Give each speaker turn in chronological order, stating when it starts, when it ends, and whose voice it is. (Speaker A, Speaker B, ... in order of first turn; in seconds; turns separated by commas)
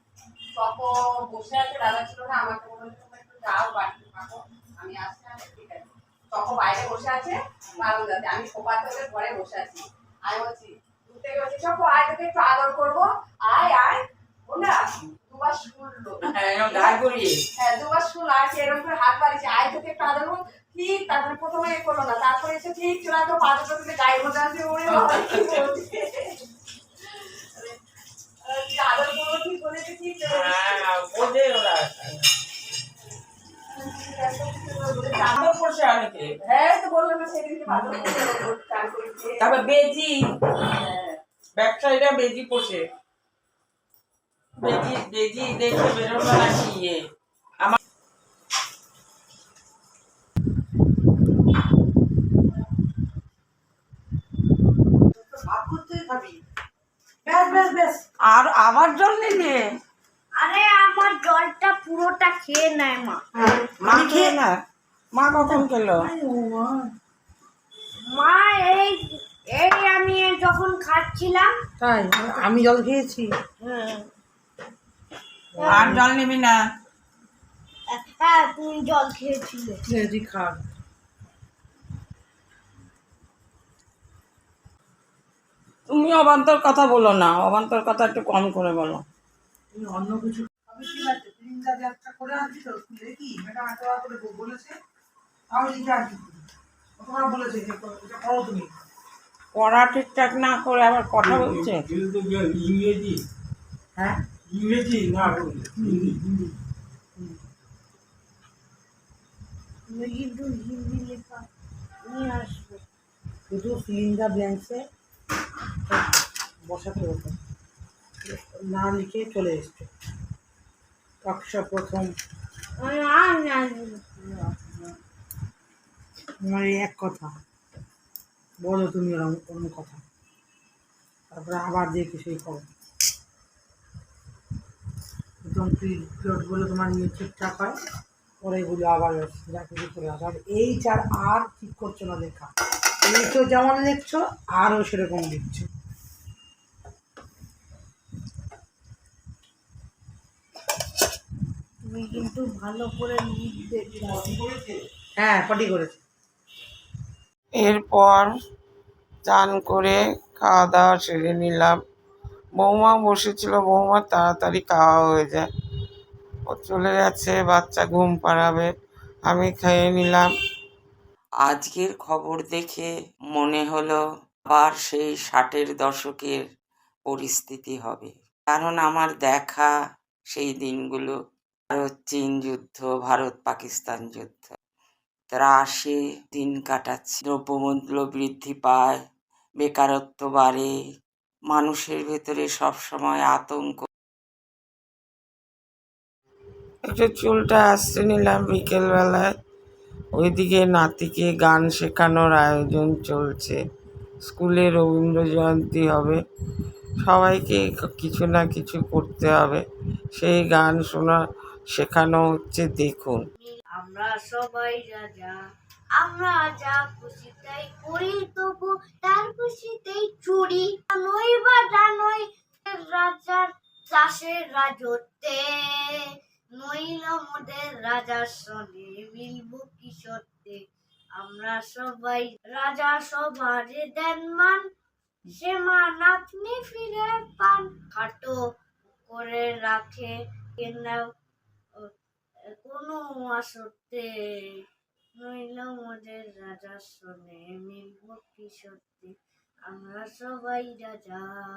Speaker A: 0.6-17.0, Speaker B: 16.2-17.4, Speaker A: 17.6-26.3, Speaker B: 24.9-25.7, Speaker A: 27.0-27.8, Speaker A: 28.4-30.8, Speaker B: 30.3-32.2, Speaker A: 33.7-35.4, Speaker B: 35.2-36.3, Speaker A: 36.4-39.5, Speaker B: 39.4-40.2, Speaker B: 41.6-42.9, Speaker B: 44.6-47.0, Speaker C: 55.2-56.4, Speaker C: 57.2-58.0, Speaker B: 58.2-59.6, Speaker D: 60.4-63.2, Speaker B: 63.8-64.5, Speaker C: 63.9-64.2, Speaker B: 65.1-66.1, Speaker C: 66.0-66.9, Speaker D: 68.1-71.5, Speaker C: 71.8-73.3, Speaker D: 73.6-74.0, Speaker C: 75.5-76.0, Speaker B: 75.7-76.6, Speaker D: 77.9-79.8, Speaker C: 79.8-80.6, Speaker B: 85.9-89.0, Speaker C: 89.7-94.7, Speaker C: 95.5-96.4, Speaker C: 97.0-98.7, Speaker B: 99.5-101.9, Speaker E: 102.0-102.6, Speaker B: 102.6-103.1, Speaker C: 104.0-104.2, Speaker E: 104.6-106.1, Speaker C: 105.7-106.4, Speaker D: 109.9-111.4, Speaker D: 112.0-112.7, Speaker C: 113.5-114.8, Speaker C: 116.6-117.4, Speaker C: 118.2-119.9, Speaker C: 121.2-122.1, Speaker D: 122.8-124.0, Speaker C: 126.4-127.3, Speaker C: 128.6-130.0, Speaker C: 131.3-132.7, Speaker C: 135.4-137.8, Speaker C: 138.4-142.5, Speaker C: 143.0-145.7, Speaker D: 151.9-153.5, Speaker E: 154.0-154.7, Speaker C: 155.2-156.0, Speaker B: 157.6-158.3, Speaker B: 159.2-161.8, Speaker B: 162.6-165.4, Speaker B: 166.5-168.7, Speaker B: 169.2-170.3, Speaker B: 171.4-176.4, Speaker B: 177.1-179.7, Speaker B: 180.3-181.2, Speaker B: 181.7-184.6, Speaker B: 185.3-189.0, Speaker B: 189.6-190.7, Speaker B: 191.5-193.9, Speaker B: 196.8-199.3, Speaker B: 200.1-203.6, Speaker B: 204.2-206.2, Speaker B: 207.0-209.6, Speaker B: 210.2-211.2, Speaker B: 211.7-213.2, Speaker D: 213.4-215.3, Speaker D: 216.0-226.0, Speaker D: 226.6-230.6, Speaker D: 231.2-234.6, Speaker D: 235.2-238.4, Speaker D: 239.1-241.0, Speaker D: 242.6-244.1, Speaker D: 245.2-249.1, Speaker D: 249.7-251.3